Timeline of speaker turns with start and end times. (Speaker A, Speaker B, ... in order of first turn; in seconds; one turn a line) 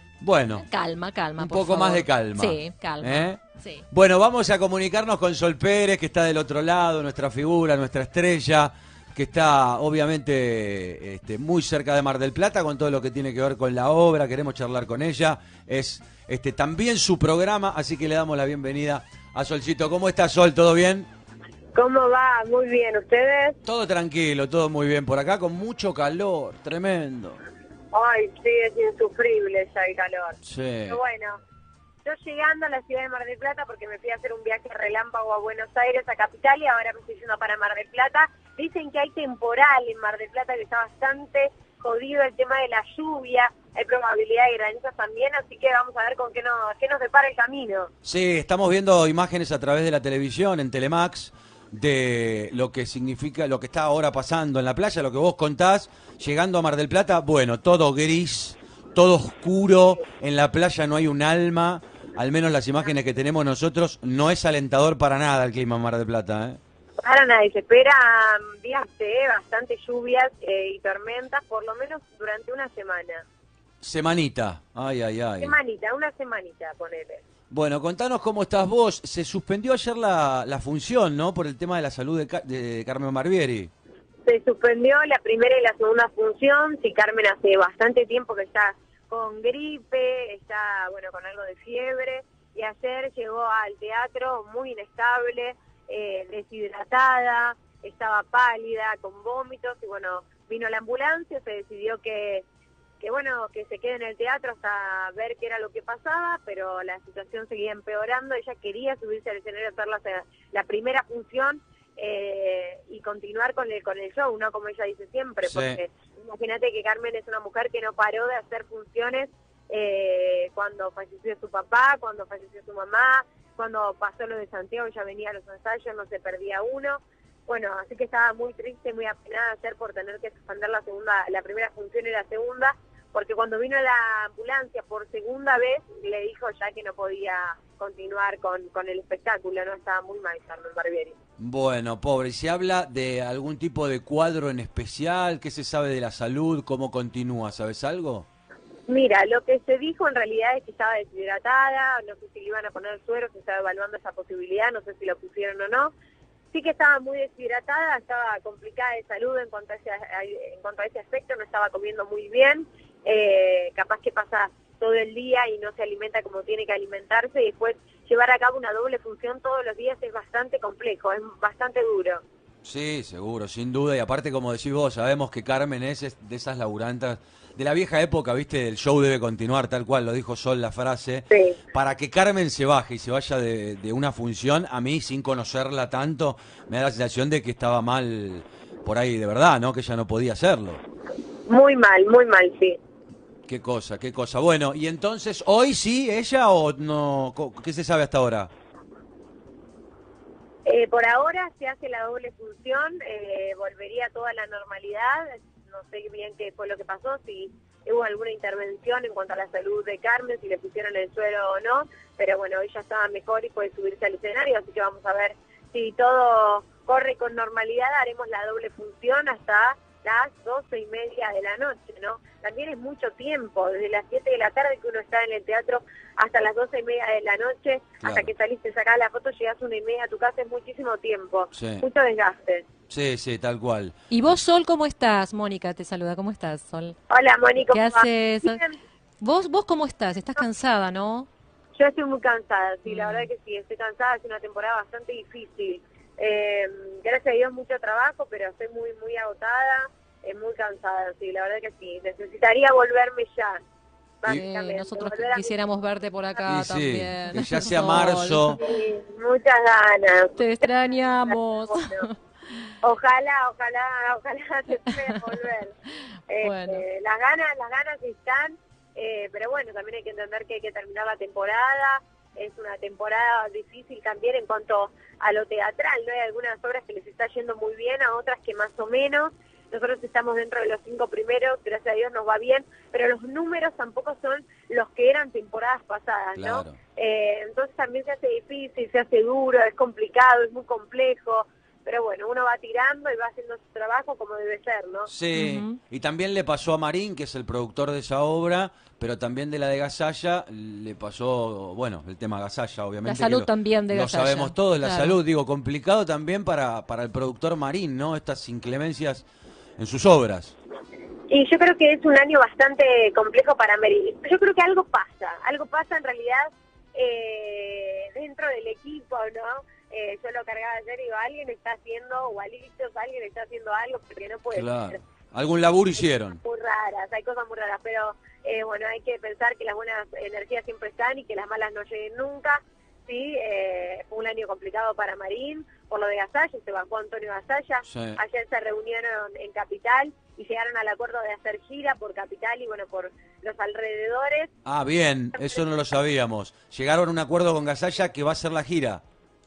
Speaker A: 0.2-0.7
Speaker B: 0.6-3.9
Speaker A: 1.4-21.1
Speaker C: 21.7-23.6
Speaker A: 23.6-27.4
Speaker C: 27.9-31.4
Speaker A: 30.4-31.0
Speaker C: 32.0-47.9
Speaker A: 48.0-66.6
Speaker C: 67.0-73.2
Speaker A: 73.8-75.5
Speaker C: 75.4-77.2
Speaker A: 77.5-83.7
Speaker C: 84.2-102.5
Speaker C: 103.0-141.2
Speaker A: 115.4-115.8
Speaker A: 141.4-148.3
Speaker C: 148.9-155.9
Speaker C: 156.5-172.2
Speaker A: 172.6-190.8
Speaker C: 181.3-181.6
Speaker C: 191.5-192.8
Speaker A: 193.5-198.5
Speaker C: 200.7-232.7
Speaker A: 228.0-228.3
Speaker A: 231.5-231.8
Speaker A: 232.9-233.9
Speaker B: 234.1-237.0
Speaker C: 237.1-238.8
Speaker B: 237.6-238.6
Speaker B: 239.2-241.3
Speaker C: 241.8-253.6
Speaker B: 242.9-243.3
Speaker C: 254.2-255.5
Speaker B: 254.3-258.6
Speaker A: 256.5-258.6
Speaker C: 258.6-260.4
Speaker B: 260.4-262.1
Speaker C: 260.9-262.1
Speaker C: 262.8-265.8
Speaker C: 266.3-295.1
Speaker B: 266.4-266.8
Speaker A: 286.4-286.8
Speaker A: 295.1-309.2
Speaker B: 295.3-295.8
Speaker B: 303.0-305.2
Speaker A: 309.8-310.5
Speaker C: 311.3-325.0
Speaker A: 324.5-326.4
Speaker C: 326.4-344.5
Speaker A: 337.9-338.2
Speaker A: 344.6-349.0